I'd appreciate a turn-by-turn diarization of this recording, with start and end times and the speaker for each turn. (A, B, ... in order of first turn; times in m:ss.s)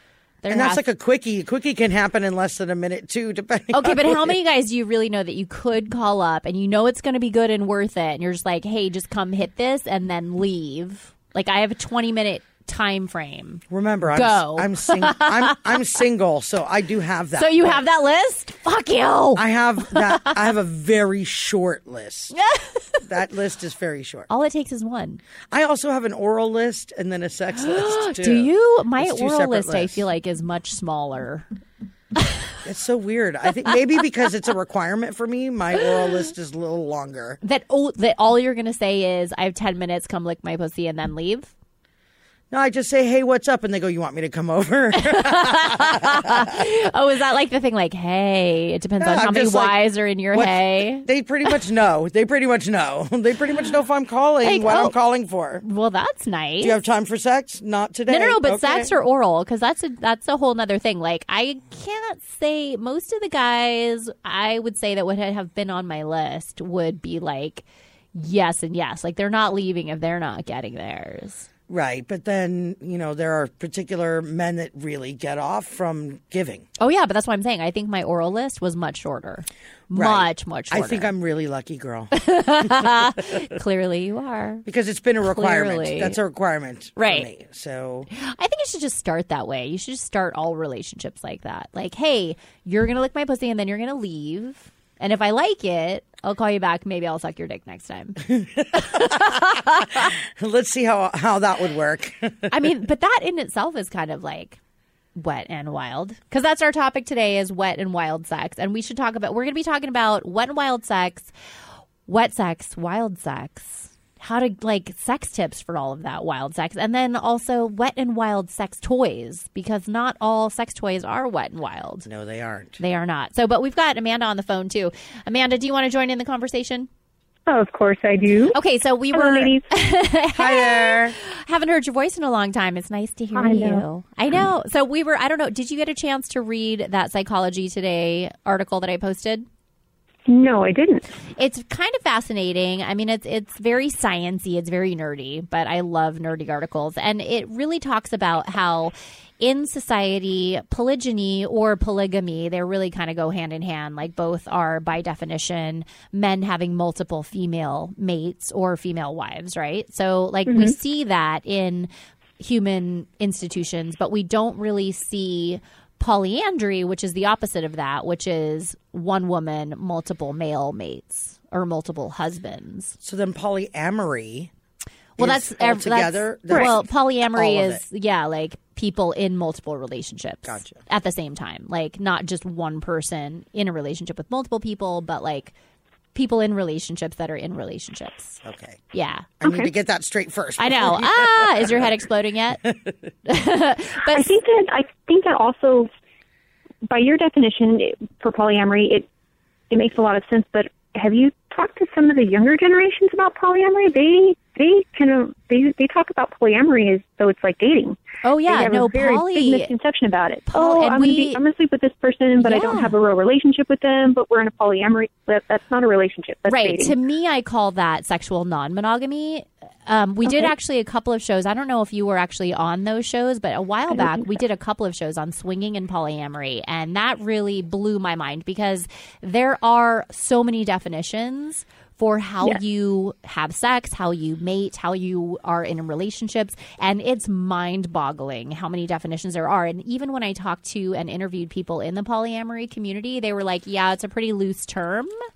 0:00.4-0:00.8 A
0:00.5-0:04.4 B
0:03.7-0:15.8 A
0:13.7-0:17.8 B
0:17.4-0:20.3 A
0:19.4-0:22.3 B
0:22.4-0:23.0 A
0:23.0-0:24.3 B
0:24.3-0:25.2 A
0:25.5-0:30.0 B
0:27.5-0:31.5 A
0:32.6-0:37.4 B
0:37.4-0:41.5 A
0:42.5-0:46.6 B
0:44.9-0:51.1 A
0:49.0-0:55.6 B
0:54.4-0:54.9 A
0:55.6-0:56.8 A
0:56.6-0:58.9 B
0:58.1-1:11.5 A
1:11.7-1:16.6 B
1:16.8-1:21.1 A
1:19.9-1:22.1 B
1:22.1-1:24.6 A
1:24.6-1:28.1 B
1:25.2-1:26.2 A
1:27.0-1:27.3 A
1:28.1-1:39.2 A
1:38.4-1:42.6 B
1:42.5-1:44.6 A
1:45.2-1:51.3 A
1:52.0-2:02.1 A
2:02.0-2:02.8 B
2:02.8-2:06.9 A
2:07.5-2:08.6 C
2:08.5-2:19.4 A
2:09.1-2:09.6 C
2:10.4-2:11.2 B
2:13.3-2:13.8 C
2:20.3-2:21.0 C
2:21.4-2:53.0 A
2:40.5-2:40.7 C
2:53.0-2:54.5 B
2:55.2-3:05.5 A
2:55.2-2:57.8 B
3:00.5-3:00.8 B
3:06.1-3:09.3 A
3:08.4-3:08.8 B
3:09.4-3:11.9 B
3:09.4-3:09.7 C
3:10.6-3:12.7 A
3:12.6-3:12.9 B
3:13.2-3:14.4 A
3:14.1-3:15.9 C
3:16.8-3:19.0 C
3:19.7-3:36.9 C
3:28.2-3:29.7 A
3:30.5-3:31.4 A
3:32.4-3:32.9 A
3:36.5-4:05.1 A